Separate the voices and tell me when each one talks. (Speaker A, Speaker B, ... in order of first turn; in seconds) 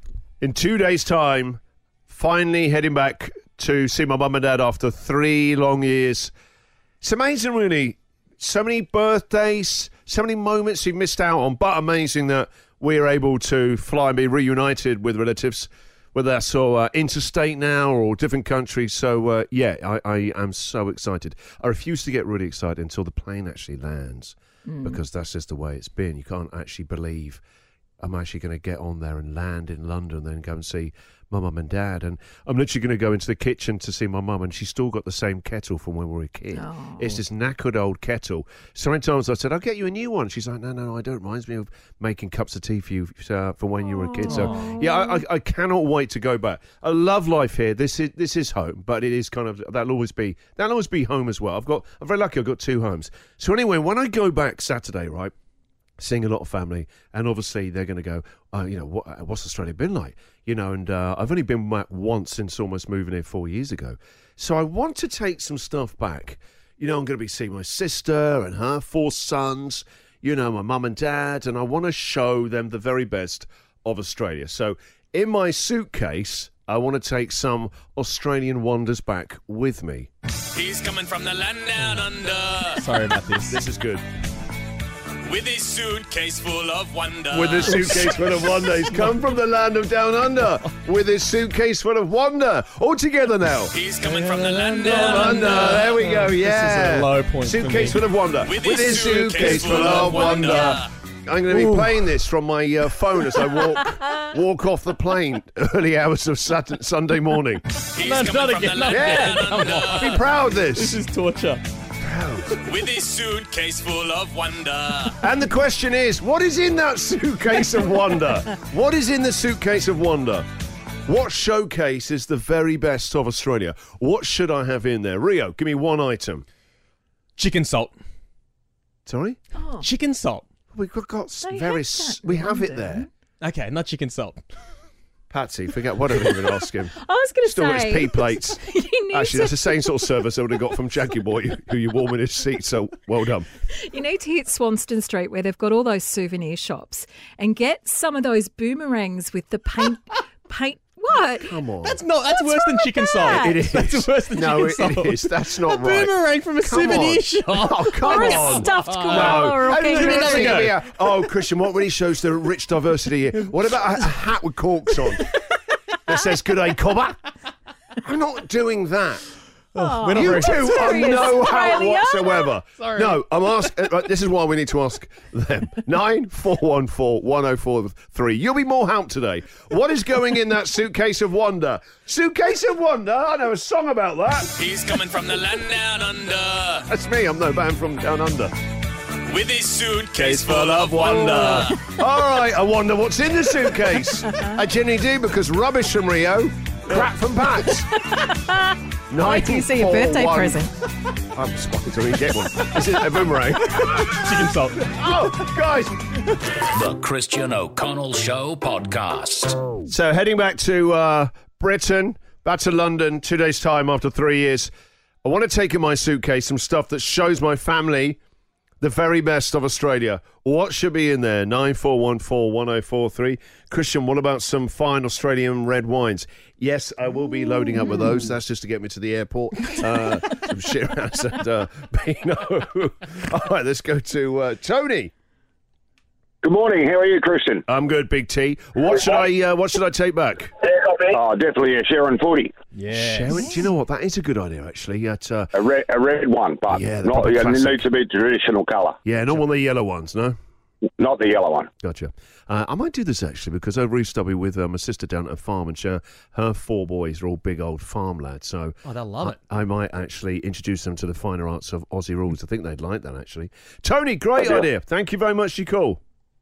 Speaker A: 0.4-6.3, 7.0-27.4, 28.0-55.3, 56.0-80.1, 83.5-84.0, 87.3-93.8, 94.8-107.6, 108.9-111.0, 112.0-112.6, 115.2-120.5, 121.0-126.4, 129.1-129.4, 130.7-133.1, 135.3-136.9, 137.4-138.6, 139.1-143.5, 151.4-152.0, 153.2-165.2, 166.1-167.2, 168.0-169.2, 170.1-184.6, 186.9-188.5, 190.1-198.0, 199.1-200.6, 201.3-204.0, 204.9-205.9, 209.8-214.7, 215.2-218.2, 218.8-235.1, 237.7-240.5, 242.9-245.6, 246.7-247.9, 249.0-250.3, 251.8-266.0
Speaker B: 24.7-25.0, 36.5-37.0, 43.9-45.2, 129.6-129.9, 131.4-133.1, 136.9-140.0, 143.7-151.5, 152.4-153.6, 158.0-160.6, 169.8-172.5, 198.2-200.7
Speaker C: 44.3-44.6, 82.7-83.6, 87.6-88.2, 94.0-98.0, 98.8-100.7, 101.5-101.9, 108.0-111.6, 127.4-127.9, 129.8-130.4, 133.4-134.4, 151.8-160.8, 169.7-171.1, 172.8-173.2, 203.7-205.1, 242.7-243.5, 258.8-259.4
Speaker D: 80.5-82.8, 85.2-88.3, 93.7-95.9, 98.4-100.9, 107.9-110.2, 112.6-115.2, 184.6-186.9, 189.3-191.8
Speaker E: 206.7-209.6
Speaker F: 236.4-237.6, 238.8-239.2, 240.8-242.5, 245.5-249.0, 251.0-251.7, 264.4-264.6